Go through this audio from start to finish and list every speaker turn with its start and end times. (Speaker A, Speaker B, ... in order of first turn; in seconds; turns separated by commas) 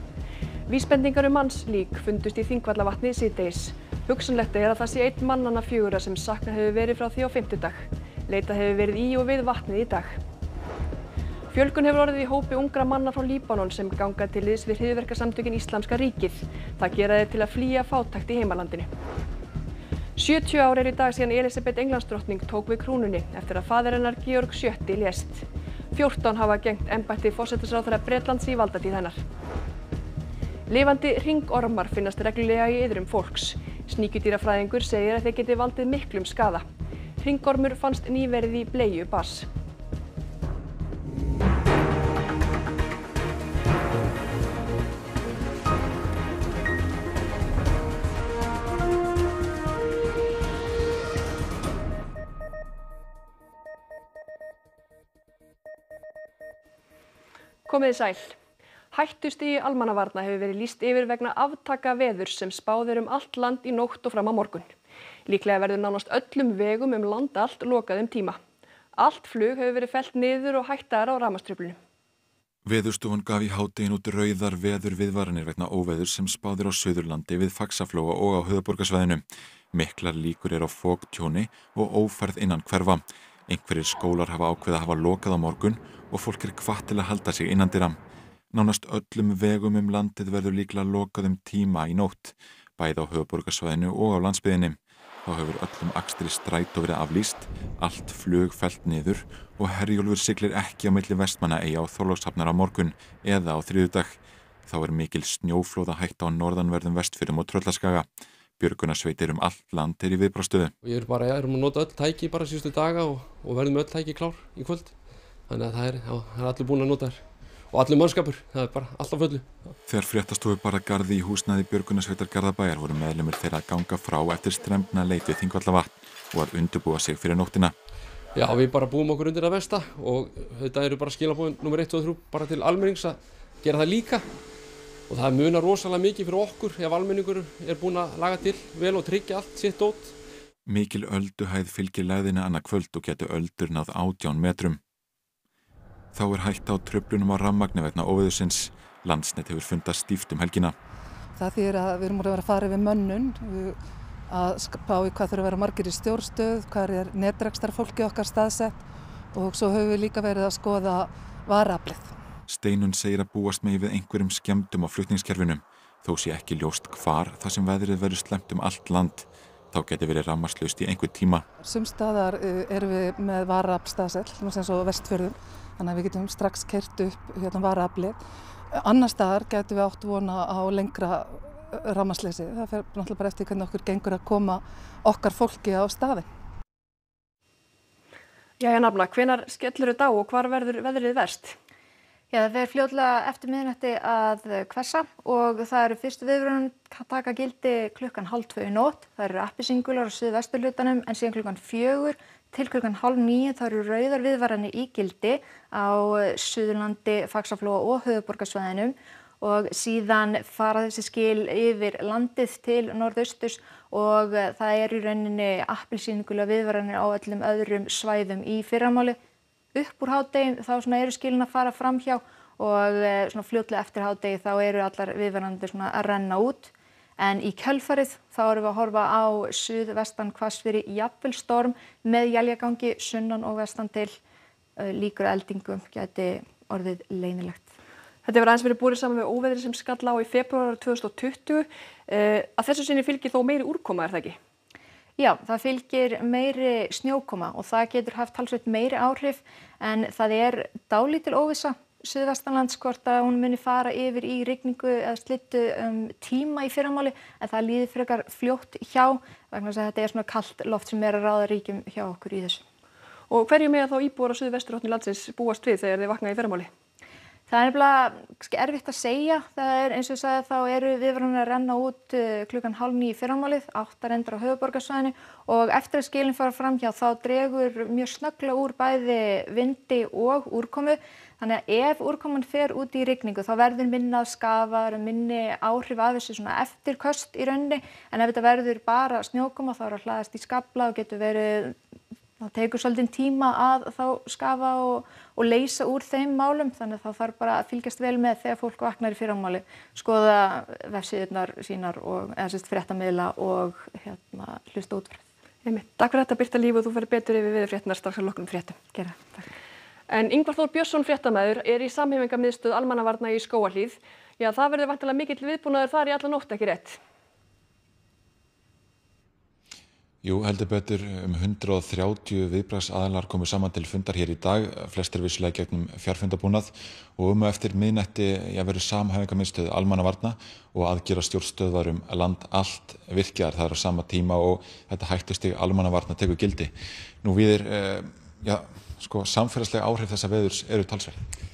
Speaker A: 0.7-10.2, Speaker A: 11.5-18.9, Speaker A: 20.1-29.2, Speaker A: 30.7-36.6, Speaker A: 37.2-39.5, Speaker A: 57.7-58.4, Speaker A: 58.9-64.7, Speaker A: 65.3-68.4, Speaker A: 69.0-71.8, Speaker B: 72.6-88.0, Speaker B: 88.5-108.1, Speaker B: 108.6-110.7, Speaker C: 110.8-119.8, Speaker B: 119.9-127.7, Speaker C: 128.3-134.3, Speaker C: 135.1-140.2, Speaker B: 140.7-144.8, Speaker B: 146.1-150.8, Speaker D: 151.4-153.8, Speaker D: 154.3-162.2, Speaker B: 162.5-171.4, Speaker D: 171.6-178.2, Speaker D: 178.8-186.3, Speaker A: 188.6-191.6, Speaker E: 192.3-219.2, Speaker E: 219.7-234.2, Speaker E: 234.8-237.7, Speaker A: 238.2-244.4, Speaker E: 245.2-262.6, Speaker A: 263.3-266.7, Speaker E: 267.5-291.8, Speaker E: 292.4-305.2, Speaker A: 305.6-308.8, Speaker E: 308.9-309.4, Speaker A: 310.1-317.0, Speaker B: 320.2-341.2